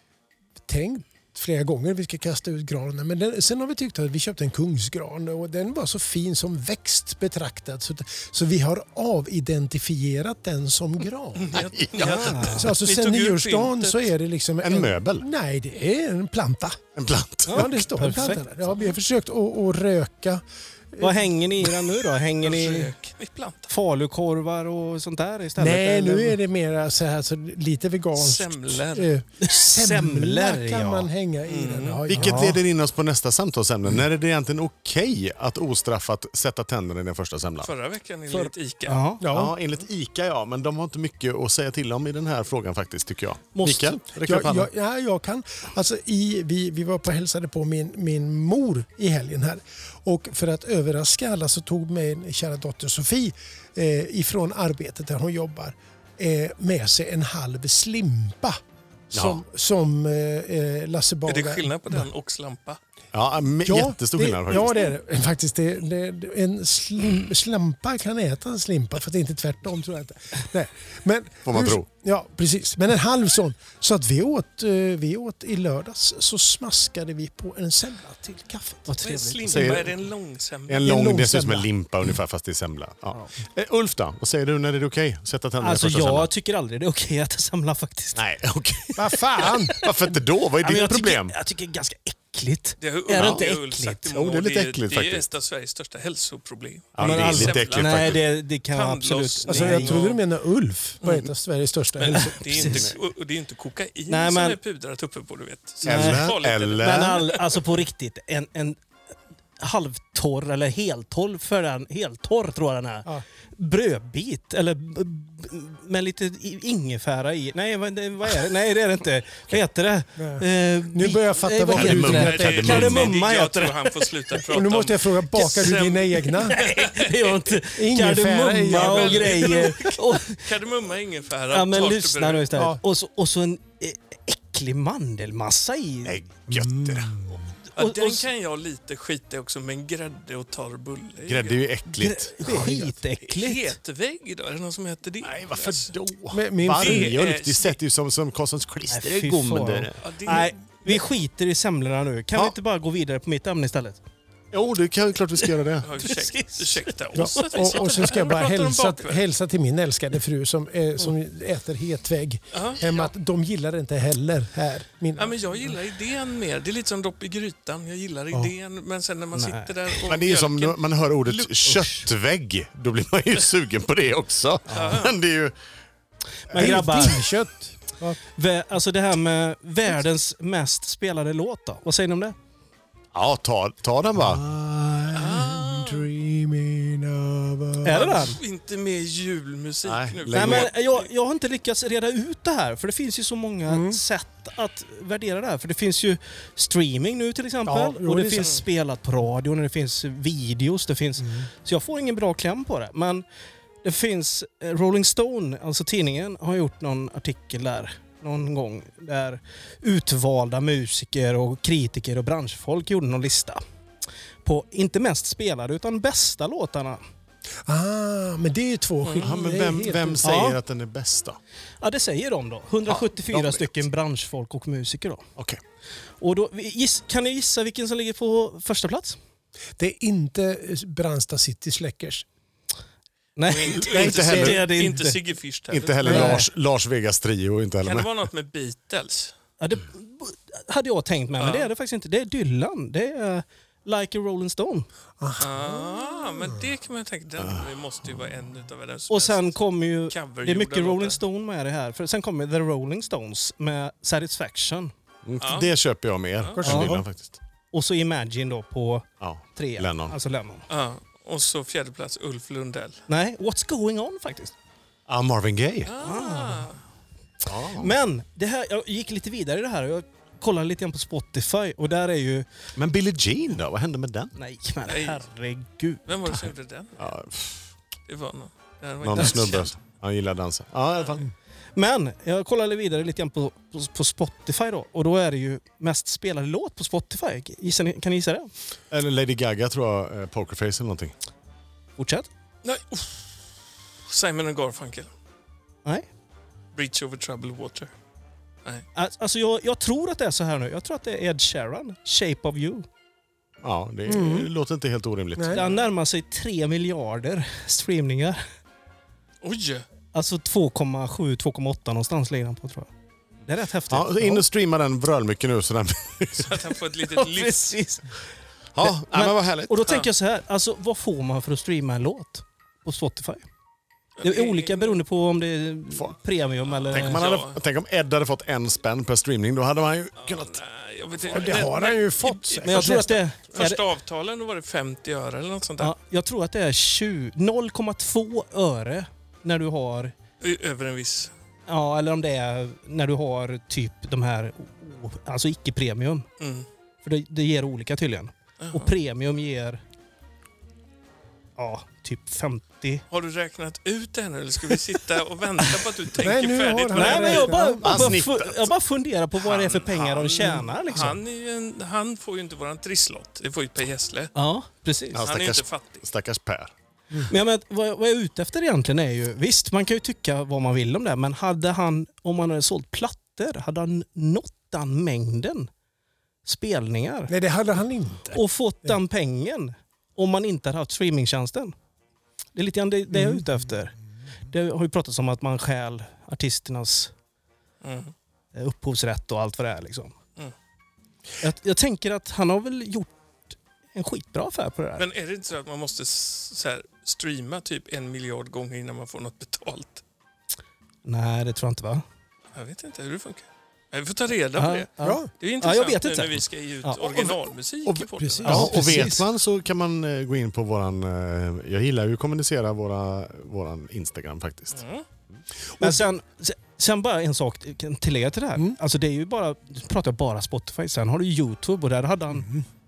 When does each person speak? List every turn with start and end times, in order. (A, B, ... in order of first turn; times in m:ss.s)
0:00.7-0:16.8 A
0:11.3-0:14.1 B
0:11.5-0:12.2 C
0:12.0-0:12.7 D
0:14.6-0:15.2 C
0:17.0-0:17.8 C
0:17.5-0:18.4 D
0:17.5-0:21.3 A
0:21.0-0:22.9 D
0:22.4-0:23.7 B
0:23.7-0:26.4 D
0:25.6-0:32.6 A
0:28.2-0:29.1 B
0:29.4-0:31.1 D
0:31.5-0:32.0 B
0:32.1-0:37.7 C
0:32.2-0:32.5 D
0:37.6-0:39.1 B
0:38.9-0:39.2 D
0:39.2-0:39.6 A
0:39.3-0:44.7 C
0:43.5-0:44.0 D
0:44.1-0:58.6 A
0:59.1-1:02.0 A
0:59.1-0:59.4 C
1:01.3-1:02.8 B
1:03.1-1:04.9 C
1:03.6-1:18.9 A
1:11.4-1:11.8 C
1:18.9-1:19.5 D
1:19.0-1:20.9 B
1:19.4-1:20.0 C
1:20.7-1:26.3 C
1:20.8-1:21.7 A
1:25.6-1:28.2 D
1:28.1-1:29.1 C
1:29.0-1:29.8 A
1:29.4-1:29.7 D
1:29.7-1:31.3 C
1:30.6-1:34.1 D
1:32.8-1:40.2 B
1:33.2-1:33.5 C
1:34.1-1:35.3 C
1:36.9-1:38.2 C
1:37.0-1:40.1 D
1:39.5-1:42.7 A
1:41.0-1:41.3 B
1:42.0-1:47.4 B
1:42.5-1:42.8 D
1:42.6-1:42.9 C
1:44.1-1:44.6 D
1:45.8-1:48.8 D
1:45.8-1:47.2 C
1:49.6-2:04.0 D
2:00.2-2:02.8 A
2:01.7-2:03.1 C
2:02.0-2:07.6 B
2:04.4-2:06.6 A
2:06.4-2:10.4 D
2:07.7-2:09.8 A
2:08.7-2:12.5 B
2:11.5-2:16.2 D
2:12.5-2:12.8 A
2:16.0-2:17.1 C
2:16.5-2:17.4 A
2:17.7-2:18.3 D
2:17.8-2:21.6 B
2:21.2-2:22.3 C
2:22.0-2:23.8 D
2:22.4-2:23.0 A
2:23.2-2:25.9 B
2:25.2-2:30.0 C
2:26.3-2:27.2 A
2:26.7-2:27.8 B
2:28.9-2:34.0 D
2:30.0-2:30.5 B
2:34.5-2:35.9 C
2:35.8-2:39.2 B
2:36.0-2:37.4 D
2:37.1-2:45.7 A
2:42.5-2:43.1 B
2:45.2-2:51.6 B
2:49.3-2:50.0 D
2:50.1-2:55.5 C
2:51.7-2:52.0 D
2:54.7-2:55.0 D
2:54.7-2:55.2 B
2:56.5-2:57.2 D
2:56.5-2:56.8 C
2:56.5-2:58.2 A
2:58.3-3:02.4 D
3:03.1-3:04.4 C
3:04.1-3:08.1 A
3:05.1-3:06.1 B
3:07.8-3:08.4 D
3:07.9-3:11.0 B
3:09.8-3:10.7 C
3:10.3-3:23.2 D
3:13.7-3:14.0 A
3:17.6-3:18.6 A
3:21.2-3:21.5 A
3:23.8-3:33.6 D
3:34.4-3:37.0 D
3:37.6-3:40.3 A
3:39.0-3:39.4 B
3:39.2-3:41.4 C
3:40.2-3:40.6 D
3:41.8-3:45.2 D
3:42.9-3:43.8 C
3:46.2-3:49.2 D
3:49.8-3:52.2 A
3:53.4-3:55.2 D
3:53.5-3:56.2 B
3:53.8-3:54.6 C
3:55.7-3:58.1 C
3:56.0-3:56.4 A
3:56.0-3:56.4 D
3:57.8-3:59.3 B
3:59.6-4:04.9 D
4:01.4-4:01.7 B
4:05.2-4:06.6 A
4:05.4-4:11.2 B
4:07.4-4:07.7 C
4:09.1-4:14.9 D
4:15.2-4:17.4 C
4:15.4-4:15.8 B
4:16.6-4:17.0 A
4:16.6-4:17.0 D
4:17.7-4:20.6 D
4:19.2-4:20.2 C
4:20.7-4:23.0 B
4:23.1-4:24.5 D
4:25.1-4:25.9 C
4:25.8-4:26.8 B
4:26.0-4:26.7 D
4:27.4-4:27.9 C
4:27.8-4:32.4 D
4:32.8-4:34.3 C
4:34.3-4:36.5 D
4:34.9-4:35.2 B
4:36.0-4:37.1 B
4:37.0-4:37.6 C
4:38.1-4:39.7 B
4:39.0-4:41.3 C
4:41.8-4:48.5 D
4:48.9-4:51.1 C
4:52.0-4:52.3 D
4:52.6-4:53.3 B
4:54.1-4:55.1 B
4:56.7-4:57.9 B
4:58.9-5:02.8 D
5:03.6-5:05.6 C
5:04.0-5:04.5 A
5:05.3-5:05.6 A
5:05.5-5:08.4 D
5:09.4-5:09.8 B
5:10.1-5:12.9 D
5:13.5-5:14.4 D
5:13.9-5:16.6 C
5:16.4-5:17.7 B
5:17.1-5:18.2 D
5:18.7-5:19.8 C
5:18.8-5:23.4 D
5:24.2-5:25.0 B
5:24.2-5:27.2 D
5:26.7-5:27.6 B
5:26.9-5:30.6 C
5:30.2-5:35.9 B
5:31.3-5:33.2 A
5:31.4-5:31.7 C
5:32.6-5:33.8 D
5:35.8-5:40.1 D
5:40.4-5:41.3 B
5:41.7-5:46.2 D
5:46.4-5:46.7 B
5:47.0-5:49.8 D
5:48.6-5:48.9 B
5:51.6-5:53.0 D
5:53.1-5:57.6 B
5:56.2-5:58.1 A
5:56.9-6:01.2 D
5:57.8-5:58.7 C
5:59.4-6:04.3 B
6:04.3-6:05.2 D
6:05.1-6:06.7 C
6:05.2-6:06.0 B
6:07.3-6:15.7 D
6:16.4-6:17.3 D
6:17.3-6:19.0 A
6:18.3-6:21.7 D
6:22.5-6:24.0 D
6:23.1-6:23.6 A
6:24.5-6:27.1 D
6:27.8-6:28.1 B
6:28.5-6:30.1 D
6:31.4-6:35.1 D
6:35.0-6:40.0 B
6:41.0-6:42.0 D
6:42.5-6:48.7 B
6:44.6-6:47.3 D
6:45.0-6:45.3 A
6:47.9-6:54.8 C
6:48.2-6:49.1 A
6:48.4-6:49.2 D
6:54.7-6:55.0 B
6:55.8-7:02.5 D
7:02.3-7:02.6 A